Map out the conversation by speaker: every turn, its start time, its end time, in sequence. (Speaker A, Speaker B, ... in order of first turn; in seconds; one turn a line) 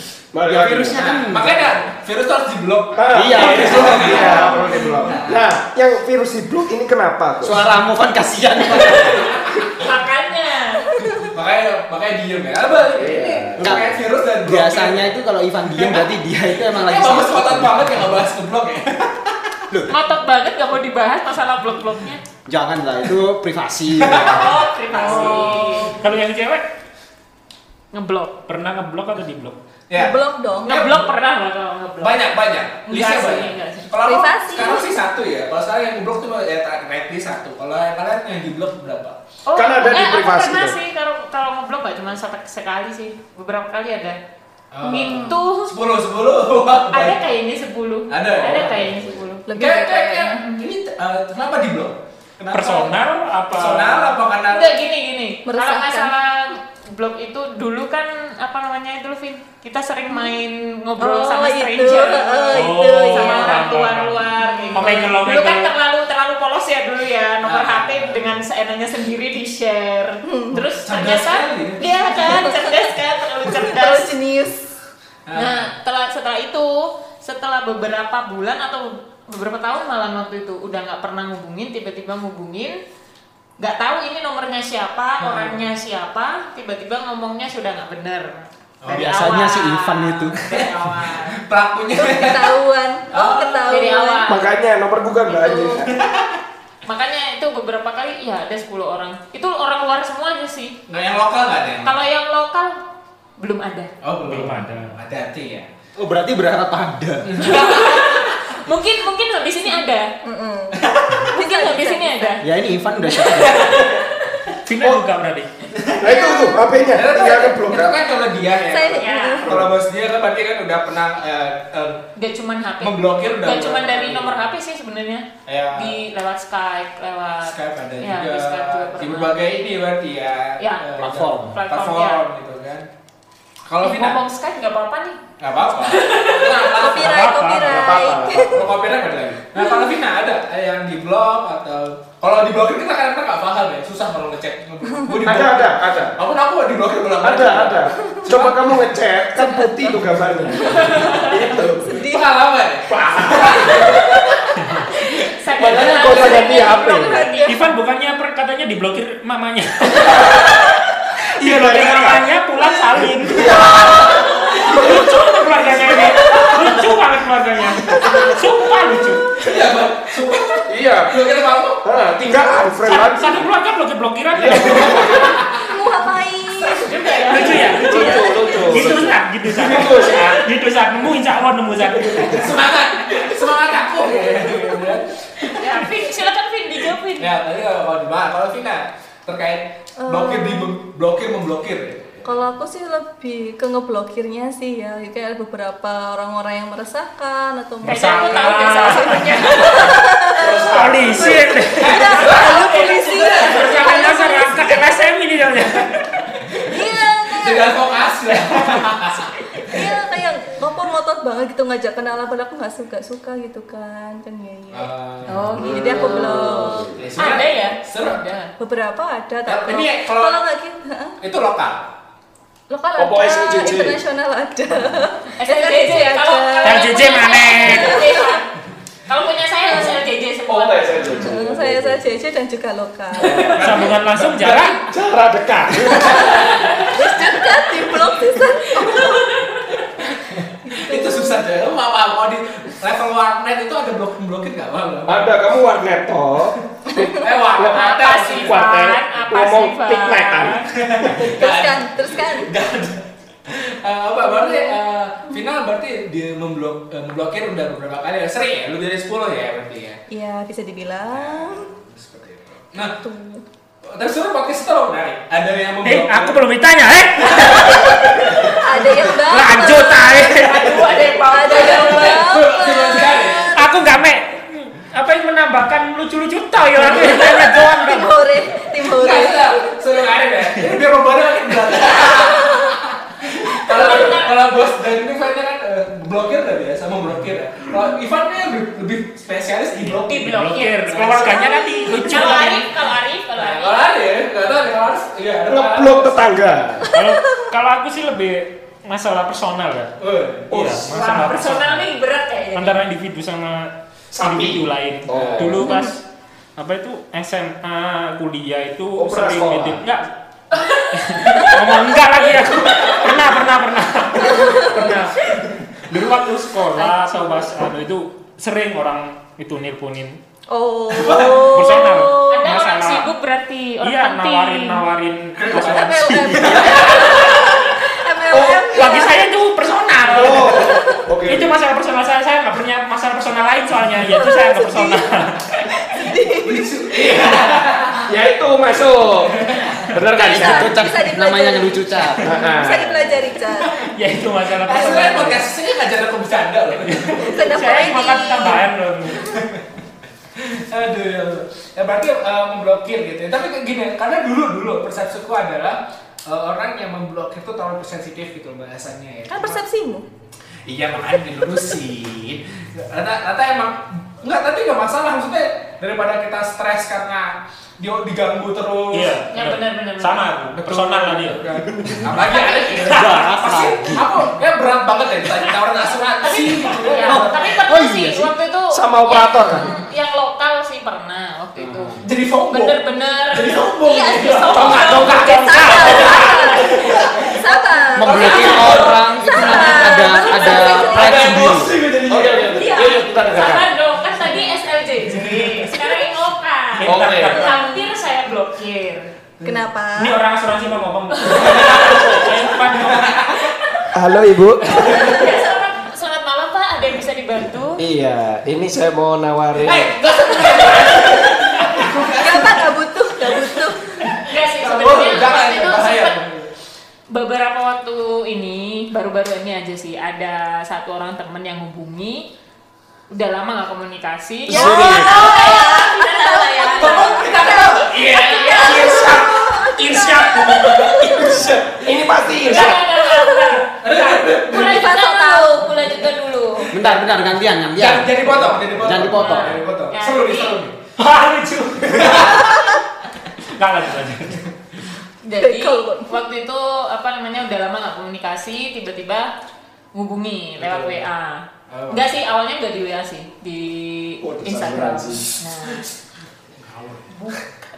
Speaker A: 0.3-1.1
Speaker B: 0.4-1.7
Speaker C: 0.8-5.5
Speaker A: 2.9-7.6
Speaker B: 3.1-4.5
Speaker D: 4.2-5.2
Speaker B: 7.4-9.3
Speaker C: 8.8-9.7
Speaker E: 9.8-10.9
Speaker D: 11.0-11.2
Speaker C: 11.1-15.1
Speaker A: 12.9-13.9
Speaker B: 13.6-18.1
Speaker C: 15.7-16.1
Speaker C: 16.7-19.6
Speaker E: 19.9-22.2
Speaker B: 22.5-24.6
Speaker C: 24.0-25.6
Speaker E: 24.1-25.9
Speaker D: 24.9-26.0
Speaker F: 25.9-26.6
Speaker E: 27.9-28.3
Speaker F: 28.5-29.6
Speaker C: 29.9-31.1
Speaker D: 29.9-30.8
Speaker E: 30.6-32.2
Speaker C: 32.0-39.2
Speaker E: 32.9-33.9
Speaker D: 34.0-34.9
Speaker E: 39.5-44.2
Speaker A: 39.5-40.8
Speaker C: 44.7-47.2
Speaker E: 44.8-45.8
Speaker D: 44.8-45.4
Speaker E: 46.9-49.5
Speaker C: 48.1-49.0
Speaker D: 49.5-50.4
Speaker C: 49.5-53.0
Speaker F: 52.5-54.2
Speaker C: 53.5-54.7
Speaker E: 54.5-74.1
Speaker D: 55.5-56.1
Speaker D: 61.0-63.8
Speaker F: 62.5-65.7
Speaker D: 64.4-65.1
Speaker C: 67.4-68.4
Speaker D: 70.3-70.6
Speaker C: 70.8-72.5
Speaker D: 72.3-72.7
Speaker D: 73.5-74.7
Speaker C: 75.2-75.7
Speaker E: 75.3-82.8
Speaker E: 83.6-91.4
Speaker C: 85.2-85.6
Speaker C: 88.8-89.1
Speaker B: 88.9-90.4
Speaker C: 90.5-93.6
Speaker D: 92.0-94.3
Speaker E: 93.1-94.5
Speaker A: 94.2-95.9
Speaker E: 95.3-95.8
Speaker C: 95.9-96.4
Speaker E: 96.8-100.7
Speaker C: 100.9-101.9
Speaker E: 101.8-102.8
Speaker E: 103.4-103.9
Speaker C: 104.0-105.7
Speaker F: 104.2-105.0
Speaker B: 106.0-107.4
Speaker C: 107.3-108.3
Speaker E: 107.4-110.1
Speaker D: 110.2-112.4
Speaker C: 110.7-111.3
Speaker E: 111.3-112.4
Speaker B: 112.4-113.8
Speaker C: 113.2-114.0
Speaker F: 114.7-115.5
Speaker C: 115.8-116.0
Speaker A: 116.0-118.0
Speaker D: 116.0-116.6
Speaker C: 116.9-122.0
Speaker D: 118.7-119.6
Speaker E: 119.0-119.4
Speaker A: 119.4-119.7
Speaker E: 122.2-129.4
Speaker C: 122.8-124.5
Speaker C: 125.5-126.0
Speaker C: 127.4-132.9
Speaker E: 130.6-130.8
Speaker B: 131.0-131.5
Speaker E: 131.5-132.2
Speaker C: 133.7-134.2
Speaker E: 133.8-135.2
Speaker C: 135.4-137.3
Speaker E: 135.8-136.7
Speaker D: 136.7-138.6
Speaker F: 136.9-138.1
Speaker A: 137.6-138.7
Speaker C: 138.3-148.8
Speaker A: 145.2-146.2
Speaker A: 147.2-152.0
Speaker E: 150.8-151.3
Speaker D: 151.8-152.3
Speaker C: 151.9-154.2
Speaker A: 152.9-154.0
Speaker D: 153.8-154.2
Speaker E: 155.3-157.7
Speaker A: 155.6-157.3
Speaker C: 155.7-156.1
Speaker D: 156.1-157.6
Speaker F: 157.4-160.6
Speaker F: 161.3-169.4
Speaker A: 161.4-162.2
Speaker A: 163.3-166.8
Speaker C: 164.7-165.0
Speaker C: 169.4-171.8
Speaker A: 170.7-171.1
Speaker A: 171.8-173.5
Speaker F: 172.8-175.3
Speaker A: 174.3-175.4
Speaker C: 174.5-175.7
Speaker D: 175.6-176.9
Speaker E: 176.7-178.2
Speaker F: 177.3-182.5
Speaker A: 177.6-180.4
Speaker A: 182.0-182.4
Speaker C: 182.1-185.8
Speaker E: 184.3-184.8
Speaker E: 185.5-187.3
Speaker C: 187.2-192.2
Speaker D: 190.0-190.7
Speaker D: 192.2-205.0
Speaker F: 197.8-199.9
Speaker E: 197.8-199.9
Speaker A: 200.4-201.6
Speaker F: 200.7-202.4
Speaker C: 201.7-203.9
Speaker E: 202.2-203.6
Speaker F: 203.3-206.2
Speaker C: 206.4-210.0
Speaker D: 206.7-208.1
Speaker D: 209.6-214.9
Speaker C: 214.7-215.5
Speaker E: 215.3-216.5
Speaker A: 215.5-217.1
Speaker D: 215.6-216.9
Speaker C: 216.9-218.2
Speaker E: 217.2-218.5
Speaker D: 218.6-221.2
Speaker C: 219.4-220.4
Speaker C: 221.2-221.9
Speaker D: 222.7-228.4
Speaker A: 223.0-224.0
Speaker E: 225.4-228.4
Speaker F: 226.6-228.1
Speaker E: 229.1-231.3
Speaker D: 229.7-230.0
Speaker A: 230.5-232.0
Speaker D: 231.1-233.5
Speaker A: 233.2-233.9
Speaker C: 233.2-234.8
Speaker F: 233.5-234.8
Speaker A: 234.8-236.4
Speaker C: 235.8-237.3
Speaker D: 236.1-239.3
Speaker E: 236.4-236.9
Speaker E: 238.7-239.8
Speaker C: 240.0-245.5
Speaker D: 240.7-241.4
Speaker A: 245.1-250.6
Speaker C: 246.8-248.7
Speaker E: 247.7-250.7
Speaker C: 250.7-260.0
Speaker D: 251.1-252.5
Speaker D: 254.2-254.8
Speaker D: 260.1-261.7
Speaker C: 261.1-263.0
Speaker D: 262.8-263.4
Speaker C: 263.8-266.4
Speaker F: 265.8-268.3
Speaker C: 267.2-268.6
Speaker D: 267.6-273.7
Speaker F: 269.1-270.8
Speaker E: 270.3-272.3
Speaker C: 271.3-273.5
Speaker F: 273.5-278.2
Speaker D: 276.8-279.8
Speaker C: 278.8-290.4
Speaker D: 282.0-282.7
Speaker E: 283.7-284.5
Speaker D: 283.7-284.2
Speaker F: 289.8-292.7
Speaker E: 290.1-293.9
Speaker C: 290.9-291.4
Speaker D: 291.4-292.2
Speaker C: 293.4-296.5
Speaker A: 295.5-296.9
Speaker F: 296.9-299.9
Speaker D: 296.9-297.4
Speaker C: 300.0-300.6
Speaker F: 300.5-301.9
Speaker A: 300.5-301.2
Speaker E: 300.9-302.8
Speaker F: 302.5-306.0
Speaker A: 304.1-305.7
Speaker C: 305.1-305.6
Speaker D: 305.6-305.9
Speaker F: 306.6-310.1
Speaker A: 309.0-309.8
Speaker E: 310.6-311.5
Speaker F: 310.9-315.2
Speaker C: 312.7-313.1
Speaker D: 314.3-314.8
Speaker F: 315.8-320.2
Speaker D: 316.8-317.4
Speaker D: 320.5-322.6
Speaker C: 320.9-321.5
Speaker F: 321.0-323.1
Speaker E: 322.3-324.8
Speaker F: 323.8-327.5
Speaker C: 325.4-327.3
Speaker D: 325.5-329.3
Speaker A: 328.3-328.7
Speaker F: 328.7-330.7
Speaker A: 330.0-331.5
Speaker D: 330.4-331.0
Speaker F: 331.3-335.6
Speaker D: 334.1-335.0
Speaker D: 335.7-336.7
Speaker C: 336.4-338.1
Speaker A: 338.1-339.4
Speaker C: 339.4-339.9
Speaker A: 339.9-340.7
Speaker D: 340.1-343.8
Speaker B: 340.2-342.2
Speaker A: 342.2-343.2
Speaker F: 343.9-345.4
Speaker C: 344.6-347.4
Speaker F: 346.8-349.3
Speaker D: 347.2-348.7
Speaker C: 349.3-349.6
Speaker C: 350.4-359.6
Speaker D: 359.3-360.0
Speaker C: 360.6-369.2
Speaker F: 368.9-372.2
Speaker E: 369.3-370.3
Speaker C: 370.5-377.6
Speaker E: 372.2-373.6
Speaker B: 372.9-374.1
Speaker E: 376.2-386.8
Speaker B: 377.1-378.3
Speaker A: 378.7-379.7
Speaker C: 382.0-389.0
Speaker D: 383.9-391.5
Speaker F: 384.6-386.6
Speaker B: 387.9-391.8
Speaker E: 388.1-388.8
Speaker E: 389.4-391.1
Speaker C: 390.6-392.8
Speaker A: 392.0-393.7
Speaker E: 392.5-399.1
Speaker C: 395.1-395.8
Speaker F: 396.8-397.7
Speaker A: 396.8-397.4
Speaker D: 399.4-400.2
Speaker F: 399.9-403.3
Speaker E: 401.1-401.7
Speaker C: 401.3-402.2
Speaker C: 402.7-403.4
Speaker A: 403.9-405.2
Speaker E: 404.7-407.8
Speaker A: 407.8-410.0
Speaker C: 409.6-412.7
Speaker D: 411.9-413.9
Speaker C: 413.2-416.5
Speaker E: 414.2-416.2
Speaker E: 417.1-422.3
Speaker E: 423.1-427.7
Speaker A: 424.5-425.3
Speaker D: 424.5-431.4
Speaker C: 426.8-429.3
Speaker F: 428.5-430.7
Speaker C: 429.8-432.0
Speaker A: 430.6-432.9
Speaker E: 432.4-436.7
Speaker D: 432.9-433.6
Speaker C: 433.8-435.0
Speaker D: 434.5-435.8
Speaker B: 436.7-439.6
Speaker C: 437.8-440.8
Speaker E: 439.0-440.6
Speaker F: 441.0-442.7
Speaker C: 441.9-442.5
Speaker F: 443.5-444.4
Speaker E: 445.2-449.3
Speaker D: 445.4-446.1
Speaker E: 449.9-455.9
Speaker C: 450.6-451.0
Speaker C: 451.7-452.1
Speaker A: 454.2-455.4
Speaker C: 456.6-457.3